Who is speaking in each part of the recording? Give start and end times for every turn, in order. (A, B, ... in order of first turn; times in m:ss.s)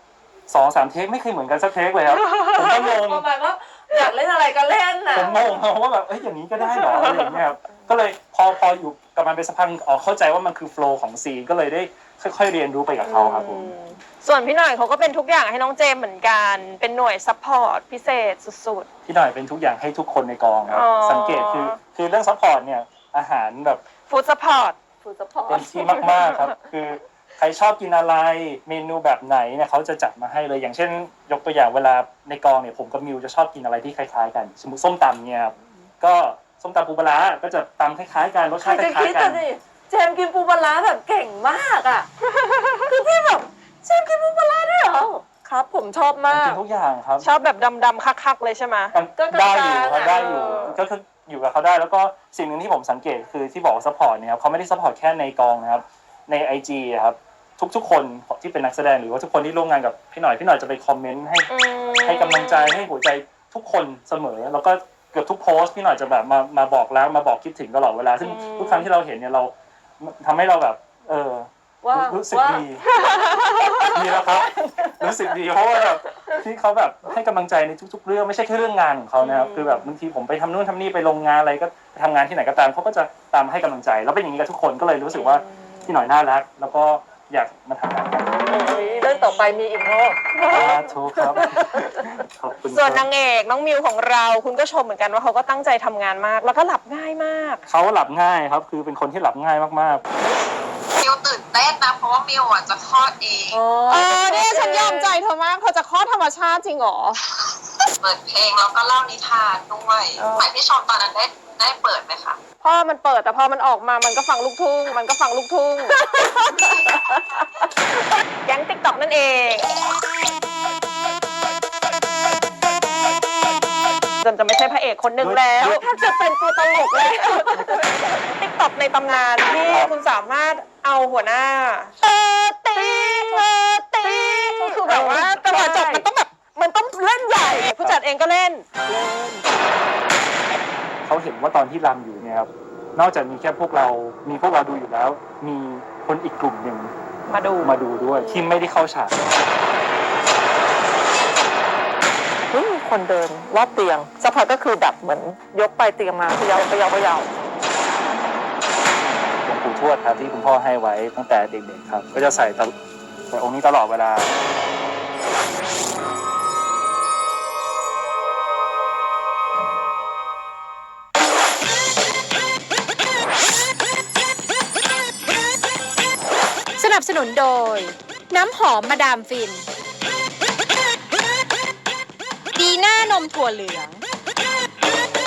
0:00.5-0:03.2 A
0:02.3-0:02.6 B
0:02.6-0:05.6 C
0:05.1-0:13.7 A
0:06.7-0:07.2 B
0:13.0-0:18.9 B
0:19.0-0:23.8 A
0:20.7-0:21.8 B
0:24.1-0:24.8 B
0:25.0-0:26.5 C
0:25.5-0:39.4 A
0:38.6-0:42.1 C
0:42.3-0:42.9 B
0:42.9-0:46.6 C
0:46.3-0:47.3 A
0:47.2-0:48.9 B
0:48.9-1:01.5 A
0:49.2-0:50.7 C
0:50.0-0:50.8 B
1:01.5-1:02.8 B
1:02.0-1:12.8 A
1:08.2-1:08.9 B
1:11.8-1:14.5 C
1:12.9-1:13.9 B
1:13.8-1:28.4 A
1:19.2-1:19.9 B
1:25.1-1:25.9 B
1:28.5-1:29.6 B
1:28.5-1:32.2 C
1:30.3-1:30.8 B
1:30.5-1:33.0 A
1:32.7-1:37.6 B
1:37.7-1:40.0 A
1:41.0-1:43.6 D
1:43.5-1:45.1 C
1:43.9-1:47.2 B
1:48.0-1:52.4 D
1:50.2-1:50.5 C
1:52.6-1:56.0 B
1:56.0-1:57.6 C
1:56.5-1:57.6 D
1:58.4-1:59.7 B
2:04.2-2:05.8 B
2:05.2-2:05.8 A
2:05.6-2:07.9 C
2:06.9-2:12.0 B
2:09.6-2:09.9 A
2:12.0-2:17.7 C
2:12.7-2:16.3 B
2:17.5-2:18.7 B
2:18.9-2:19.4 C
2:21.0-2:26.9 A
2:27.3-2:28.4 B
2:27.6-2:29.2 A
2:32.5-2:37.3 C
2:39.1-2:42.7 A
2:43.3-2:44.3 A
2:56.8-2:59.6 E
3:02.5-3:04.0 E